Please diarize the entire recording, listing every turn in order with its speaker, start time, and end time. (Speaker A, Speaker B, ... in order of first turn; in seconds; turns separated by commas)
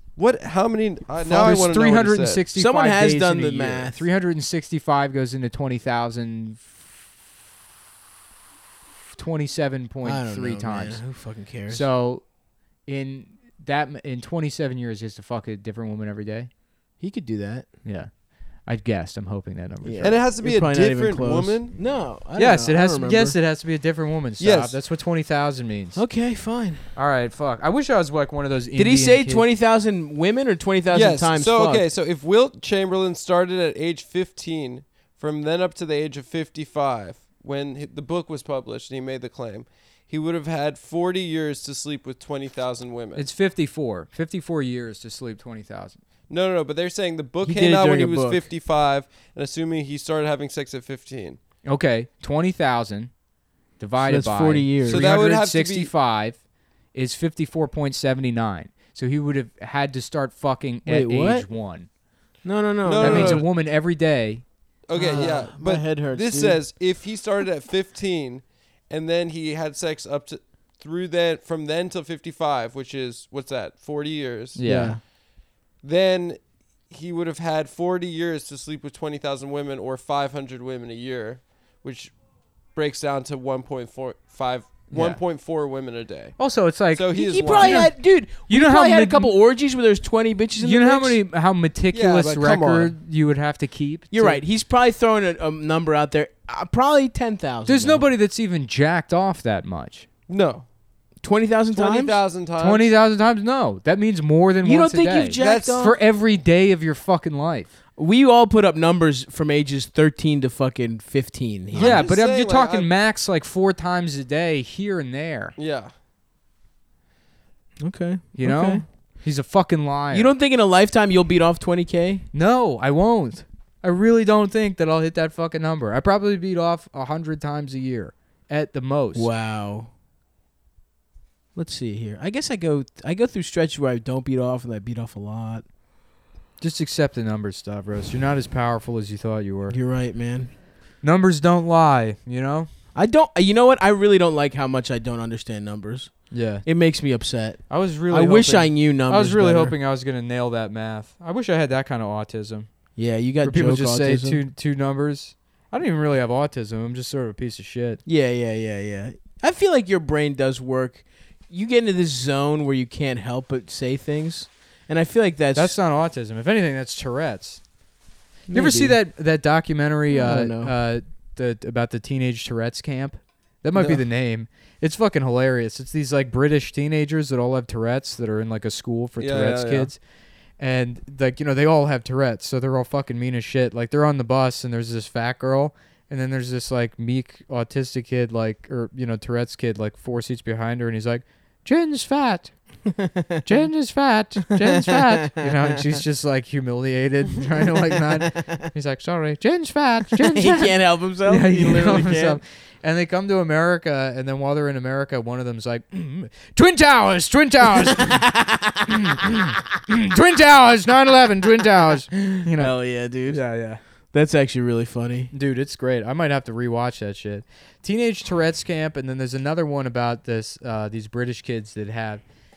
Speaker A: 0.1-2.4, Speaker B: 1.2-6.8, Speaker C: 2.5-4.0, Speaker B: 9.1-11.1, Speaker C: 10.0-11.8, Speaker B: 11.7-12.3, Speaker B: 12.8-16.5, Speaker C: 17.0-17.7, Speaker B: 17.8-20.2, Speaker C: 19.8-23.4, Speaker A: 20.0-22.0, Speaker B: 22.3-26.1, Speaker A: 24.4-24.8, Speaker C: 25.9-26.9, Speaker B: 26.9-29.5, Speaker C: 28.8-31.8, Speaker A: 30.9-43.3, Speaker B: 43.1-46.0, Speaker A: 46.3-51.4, Speaker C: 47.4-48.4, Speaker B: 51.6-53.1, Speaker B: 53.8-56.4, Speaker C: 54.0-55.1, Speaker A: 54.9-55.9, Speaker B: 56.9-61.9, Speaker C: 60.9-61.5, Speaker C: 62.4-63.4, Speaker A: 62.8-63.5, Speaker B: 63.0-64.4, Speaker A: 64.9-74.7, Speaker C: 64.9-66.6, Speaker B: 74.5-75.0, Speaker C: 74.7-75.0, Speaker A: 75.8-82.1, Speaker A: 82.7-86.4, Speaker B: 84.9-85.2, Speaker B: 86.4-89.3, Speaker A: 86.9-87.9, Speaker C: 87.1-91.2, Speaker B: 90.6-94.4, Speaker A: 91.9-92.9, Speaker C: 94.1-98.0, Speaker B: 97.7-100.1, Speaker A: 100.3-100.7, Speaker C: 101.2-102.2, Speaker A: 101.7-102.9, Speaker B: 102.6-107.7, Speaker C: 104.6-105.9, Speaker A: 105.4-105.9, Speaker C: 108.0-112.1, Speaker B: 111.7-115.5, Speaker A: 111.7-112.9, Speaker A: 115.5-115.9, Speaker C: 117.8-118.8, Speaker B: 118.3-120.3, Speaker C: 120.1-122.2, Speaker B: 122.3-129.3, Speaker C: 129.1-129.9, Speaker C: 131.5-135.7, Speaker B: 136.6-139.8, Speaker C: 139.7-140.5, Speaker B: 141.0-142.7, Speaker C: 142.9-149.7, Speaker B: 146.3-146.7, Speaker B: 147.7-152.7, Speaker C: 152.9-154.4, Speaker B: 153.4-158.0, Speaker C: 158.0-165.8, Speaker B: 165.5-167.6, Speaker C: 168.5-169.0, Speaker B: 168.5-180.0, Speaker C: 170.1-170.7, Speaker A: 173.7-174.0, Speaker A: 179.2-179.9, Speaker B: 180.6-192.5, Speaker C: 192.9-193.5, Speaker B: 193.4-208.3, Speaker C: 194.5-195.8, Speaker C: 198.0-198.6, Speaker C: 200.2-202.4, Speaker C: 207.9-209.0, Speaker B: 208.9-213.8, Speaker C: 212.5-213.4, Speaker C: 214.1-215.3, Speaker B: 215.3-222.2